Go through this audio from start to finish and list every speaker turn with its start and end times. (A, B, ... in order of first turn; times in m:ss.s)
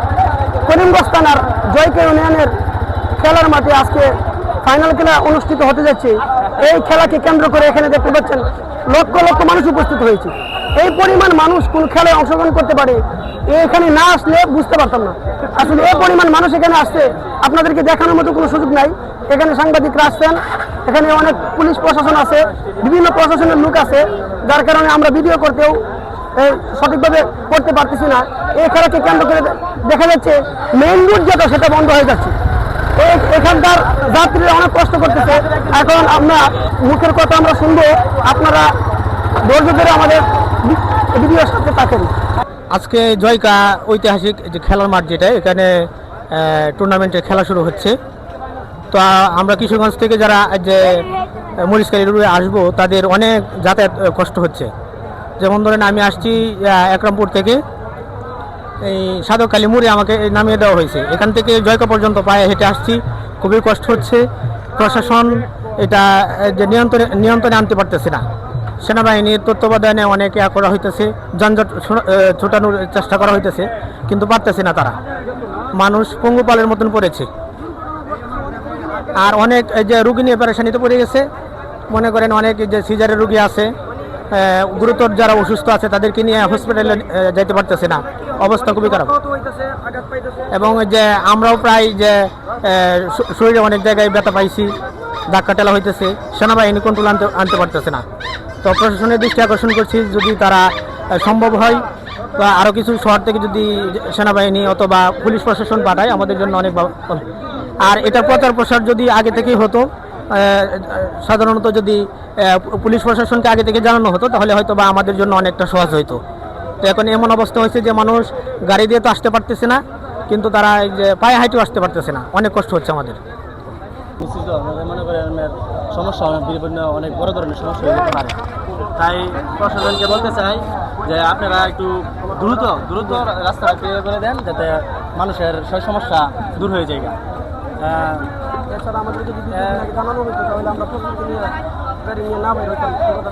0:00.7-0:02.5 A
0:03.2-0:25.8 A
0:26.4-0:32.3 A
0:33.0-0:38.7 A
0:39.4-0:42.1 A
0:42.7-0:48.0 B
0:48.9-0:51.1 B
0:51.6-0:54.7 B
0:55.4-0:57.6 B
0:58.8-1:04.2 B
1:04.7-1:08.2 B
1:08.8-1:15.0 B
1:15.8-1:17.3 B
1:19.1-1:21.3 B
1:21.9-1:23.7 B
1:24.3-1:29.2 B
1:30.5-1:34.7 B
1:35.3-1:38.0 B
1:38.6-1:41.8 B
1:42.4-1:47.2 B
1:47.8-1:56.2 B
1:56.8-2:03.2 B
2:04.2-2:08.4 C
2:09.0-2:17.2 C
2:17.8-2:18.3 C
2:18.8-2:21.5 A
2:19.5-2:19.9 C
2:22.0-2:23.2 A